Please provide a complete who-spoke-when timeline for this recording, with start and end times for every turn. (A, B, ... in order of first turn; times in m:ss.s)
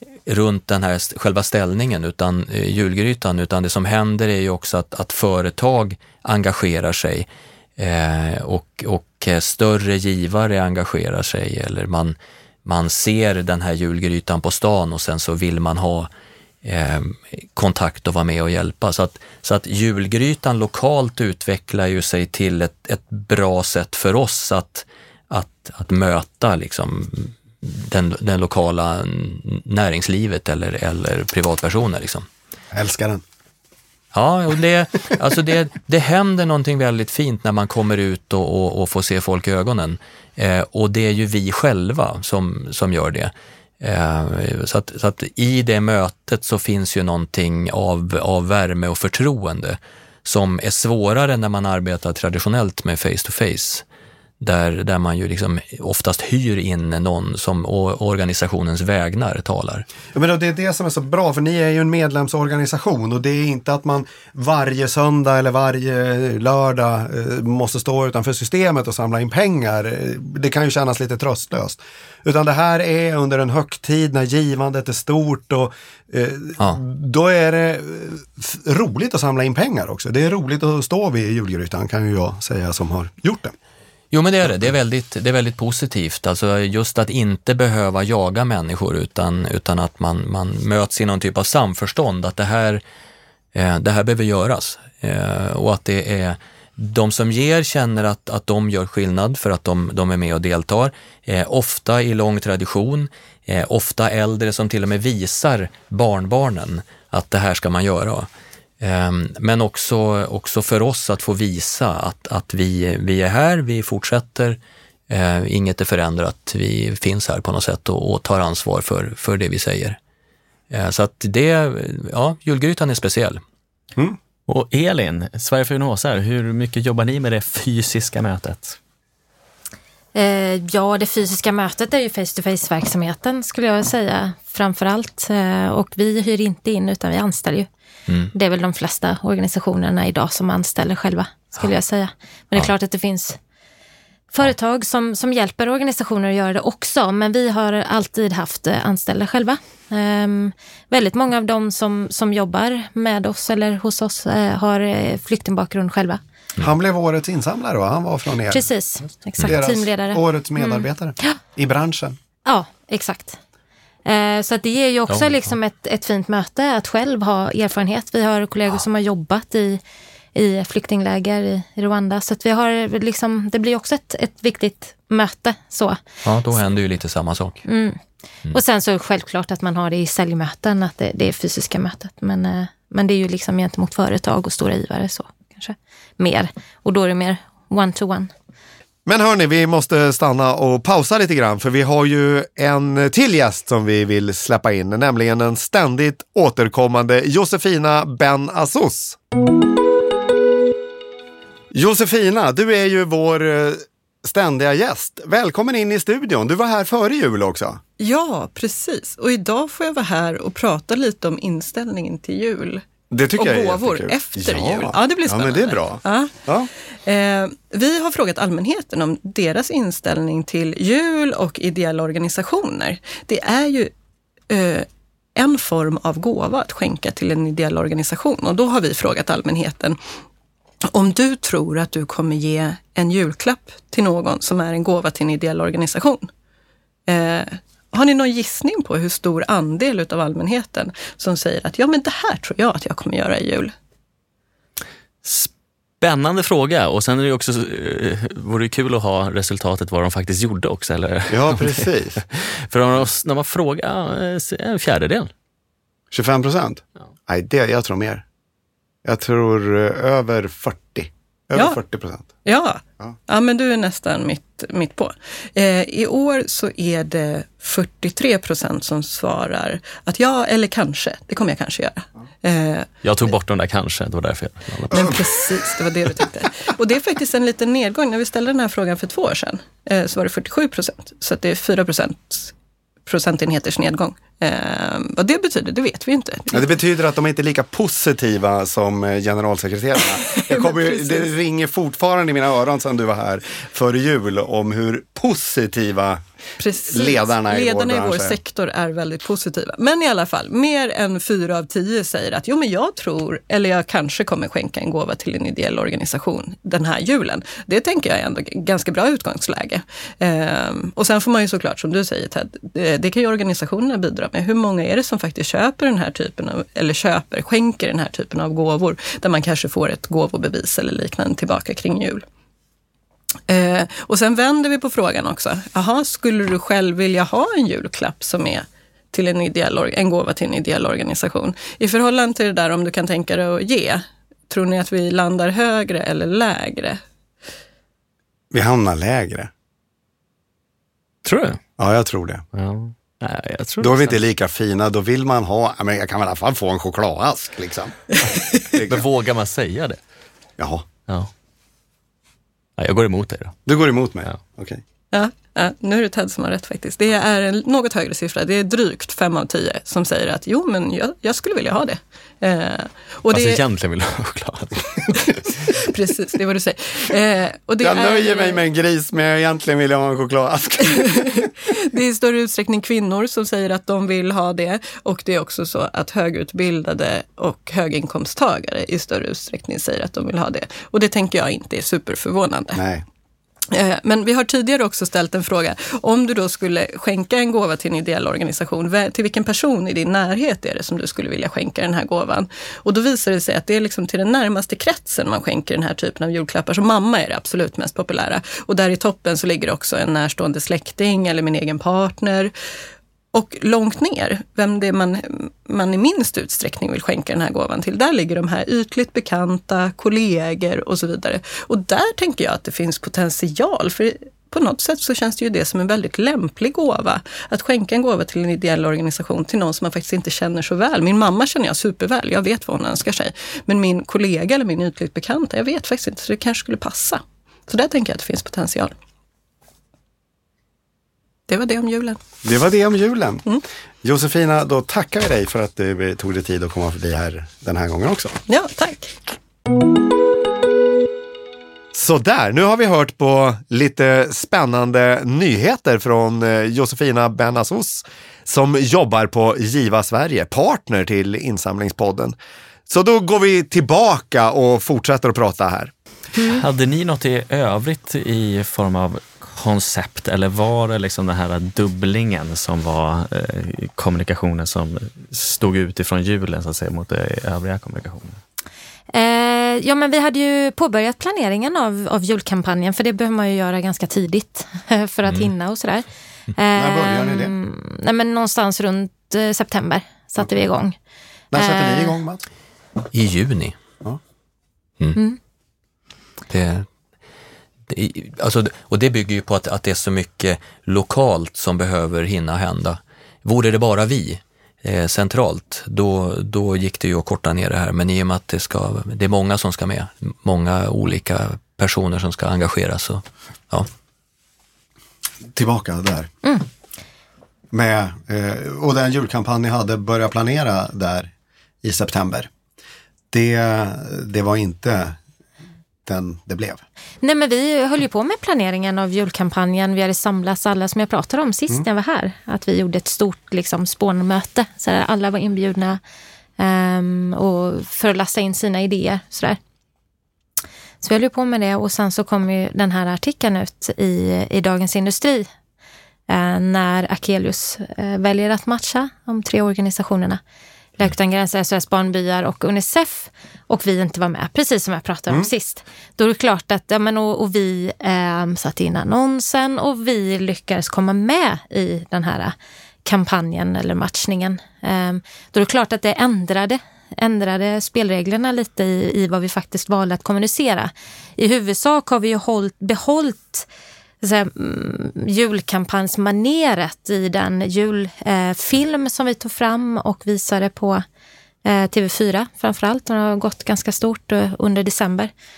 0:00.2-0:16.1 A
0:16.6-0:32.3 A
0:32.7-0:33.2 B
0:34.1-0:53.8 A
0:54.4-0:59.8 A
1:00.1-1:23.5 B
1:24.1-1:32.8 A
1:33.5-1:48.3 A
1:48.8-1:54.6 A
1:55.1-2:00.0 A
2:00.7-2:03.4 A
2:04.5-2:08.8 C
2:10.1-2:17.7 D
2:18.3-2:23.4 D
2:24.3-2:36.2 D
2:36.6-2:38.7 B
2:38.5-2:41.4 D
2:39.4-2:42.2 B
2:42.4-2:43.4 D
2:44.0-2:49.8 D
2:50.3-2:56.0 D
2:56.2-2:57.6 A
2:57.6-2:58.0 D
2:58.5-3:08.3 D
3:09.0-3:19.2 B
3:21.7-3:27.8 B
3:28.0-3:32.8 E
3:33.1-3:36.7 B
3:33.4-3:36.3 E
3:37.0-3:43.9 E
3:44.5-3:50.0 E
3:50.9-3:56.3 E
3:57.1-4:03.7 E
4:05.2-4:15.3 C
4:11.3-4:12.2 B
4:16.1-4:18.2 B
4:19.0-4:22.3 B
4:22.4-4:32.9 E
4:33.0-4:35.4 C
4:34.9-4:42.5 E
4:43.0-4:46.6 E
4:46.5-4:56.2 B
4:50.1-4:51.3 E
4:56.6-5:22.2 E
4:56.9-4:58.4 B
5:23.5-5:37.0 E
5:38.5-5:39.5 B
5:41.2-5:41.6 C
5:41.8-5:42.4 B
5:42.5-5:44.2 C
5:43.8-5:48.0 B
5:48.7-5:49.0 B
5:48.8-5:50.0 C
5:50.6-5:50.9 B
5:52.8-5:53.6 C
5:53.6-5:54.8 B
5:55.1-6:03.6 E
6:03.3-6:05.5 C
6:05.3-6:08.6 E
6:07.8-6:11.5 B
6:11.0-6:22.8 E
6:22.7-6:23.0 B
6:23.7-6:42.5 E
6:43.3-7:08.9 E
7:11.5-7:12.2 E
7:12.4-7:13.4 B
7:14.0-7:18.4 B
7:18.5-7:19.2 E
7:21.9-7:32.3 B
7:32.9-7:35.9 B
7:36.5-7:48.4 C
7:49.1-8:01.0 D
7:56.7-7:57.5 B
8:01.5-8:02.4 B
8:01.6-8:02.2 D
8:03.1-8:03.8 A
8:06.5-8:06.9 A
8:07.9-8:23.9 A
8:25.5-8:26.3 B
8:27.7-8:31.3 B
8:31.8-8:32.5 B
8:33.3-8:35.2 B
8:36.0-8:36.8 B
8:37.2-8:46.0 D
8:46.6-8:49.6 D
8:51.0-8:55.5 D
8:56.3-9:00.4 D
9:01.0-9:23.6 D
9:24.2-9:31.0 D
9:31.6-9:35.3 D